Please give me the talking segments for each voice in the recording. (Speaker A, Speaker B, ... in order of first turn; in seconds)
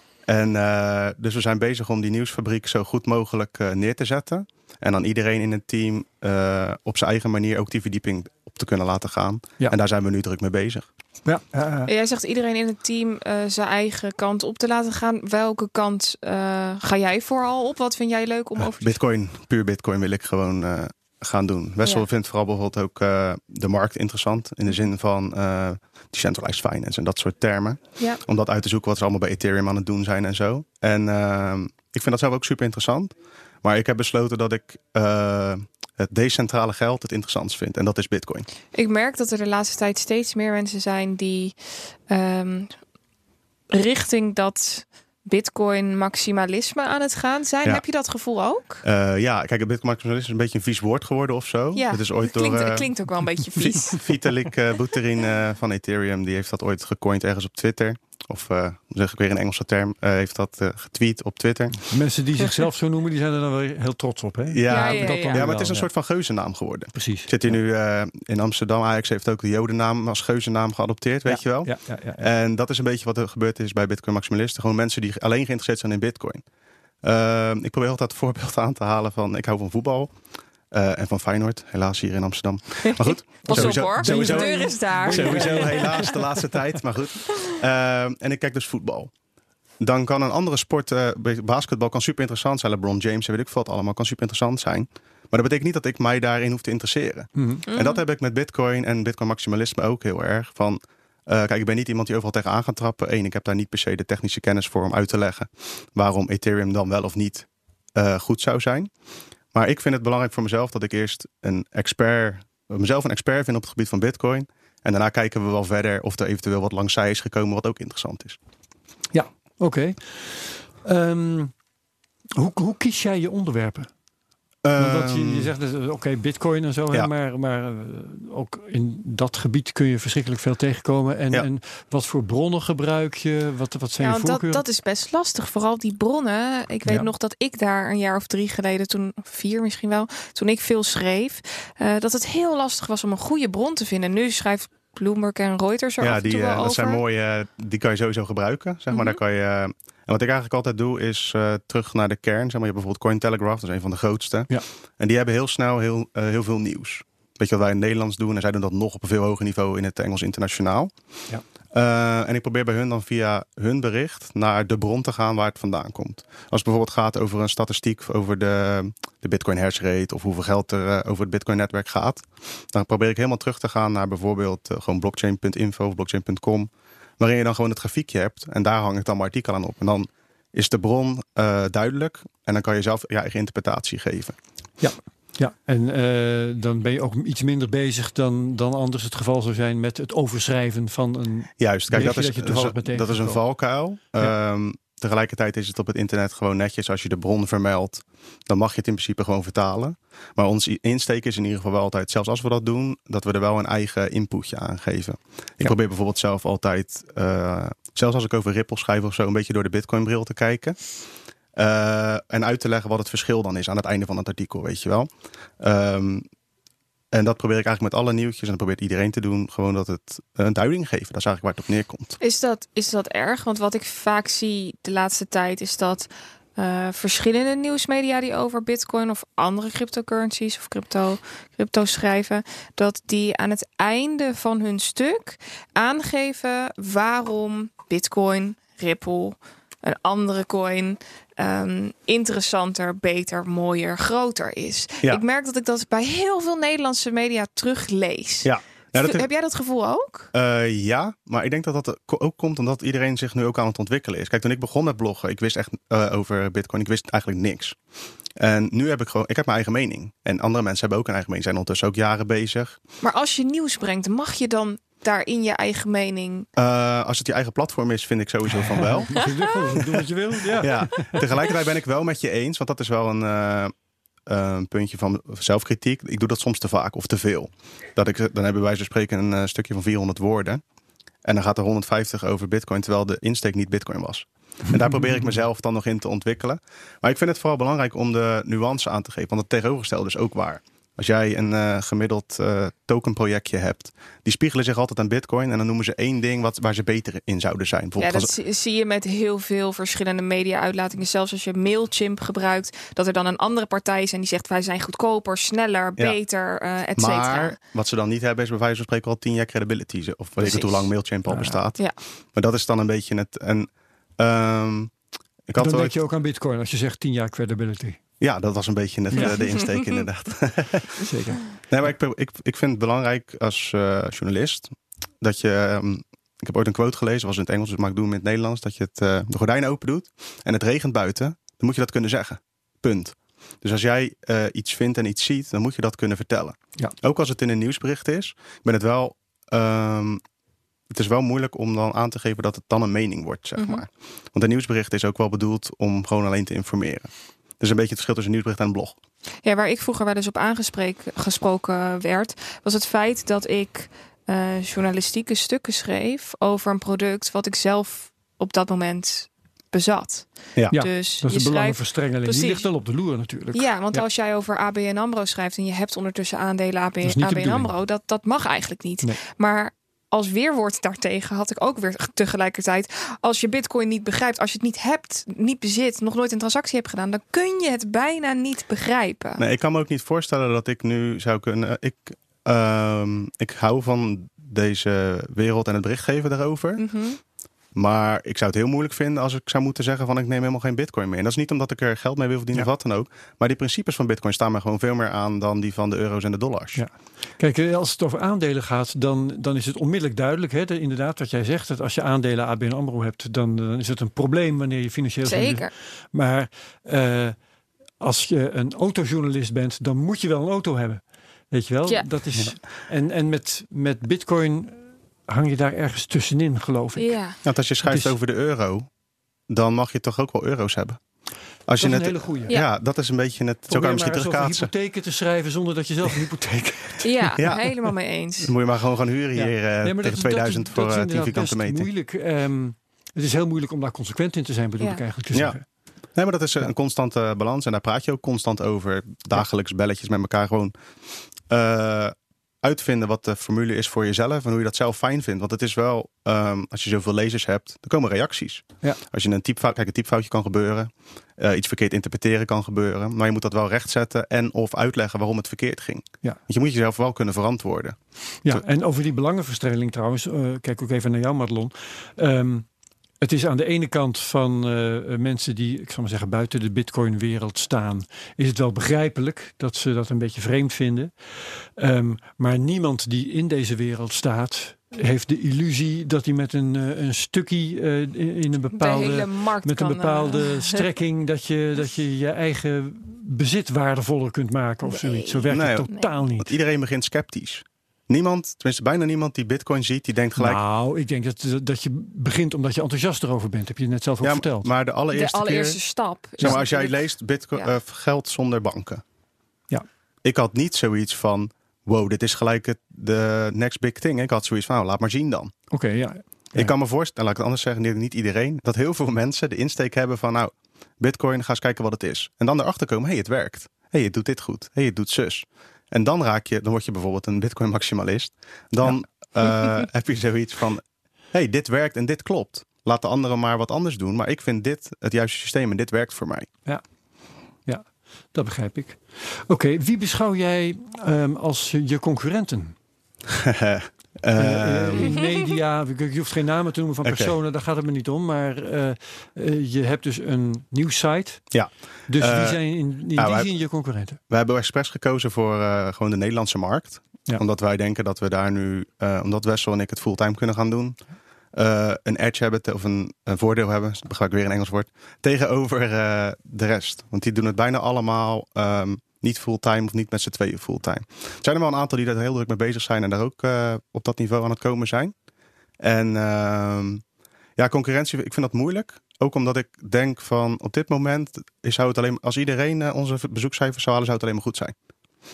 Speaker A: 0.3-10.9, 18.6-38.5, 48.8-52.9, 53.5-61.8, 64.5-76.4, 77.0-80.1, 80.7-89.1, 89.8-108.9, 109.5-118.4, 124.6-125.5, 146.0-160.9, 161.7-184.4, 191.6-210.8, 211.6-215.1, 215.6-216.2, 217.1-222.2, 248.4-249.3, 250.3-257.8, 258.4-262.8, 266.6-273.7, 274.3-280.6, 281.2-298.3, 307.0-311.8, 312.4-314.9, 315.5-316.0, 318.2-321.1, 321.7-340.2, 340.9-349.0, 379.4-386.8, 387.8-396.8, 417.4-418.9, 419.5-421.0, 421.7-424.7, 427.4-427.8, 428.4-431.9, 436.1-440.7, 441.5-458.0, 485.5-490.6, 494.2-495.8, 496.4-499.0, 500.2-505.5, 506.5-520.8, 521.3-526.5, 533.3-535.2, 537.0-537.3, 541.5-542.6, 543.1-543.5, 544.3-551.0, 551.5-565.1, 565.8-567.0, 567.6-574.7
Speaker B: 11.2-11.9, 61.8-65.9, 66.9-67.5, 71.3-72.3, 83.5-86.6, 97.4-97.7, 119.1-121.5, 122.4-123.9, 124.8-134.6, 184.8-193.4, 268.8-271.3, 311.3-311.6, 315.6-318.0, 321.0-321.4, 360.7-364.0, 367.0-367.7, 396.8-407.4, 408.0-417.2, 417.9-418.2, 421.8-422.6, 423.7-427.4, 429.4-435.6, 458.4-462.7, 463.2-486.6, 490.4-494.7, 505.7-506.7, 527.7-532.8, 534.4-541.5, 542.1-544.2
Speaker C: 11.9-18.9, 38.7-41.5, 42.1-42.8, 43.7-48.8, 51.8-54.1, 64.7-65.5, 82.9-86.1, 97.7-98.0, 134.0-147.0, 148.9-149.2, 222.2-250.3, 263.0-266.5, 298.0-307.6, 310.4-310.9, 319.2-319.9, 343.6-343.8, 349.4-362.6, 363.5-379.4, 386.8-387.2, 405.2-405.7, 417.0-417.4, 427.0-428.5, 478.8-480.8, 484.9-486.1, 495.1-497.7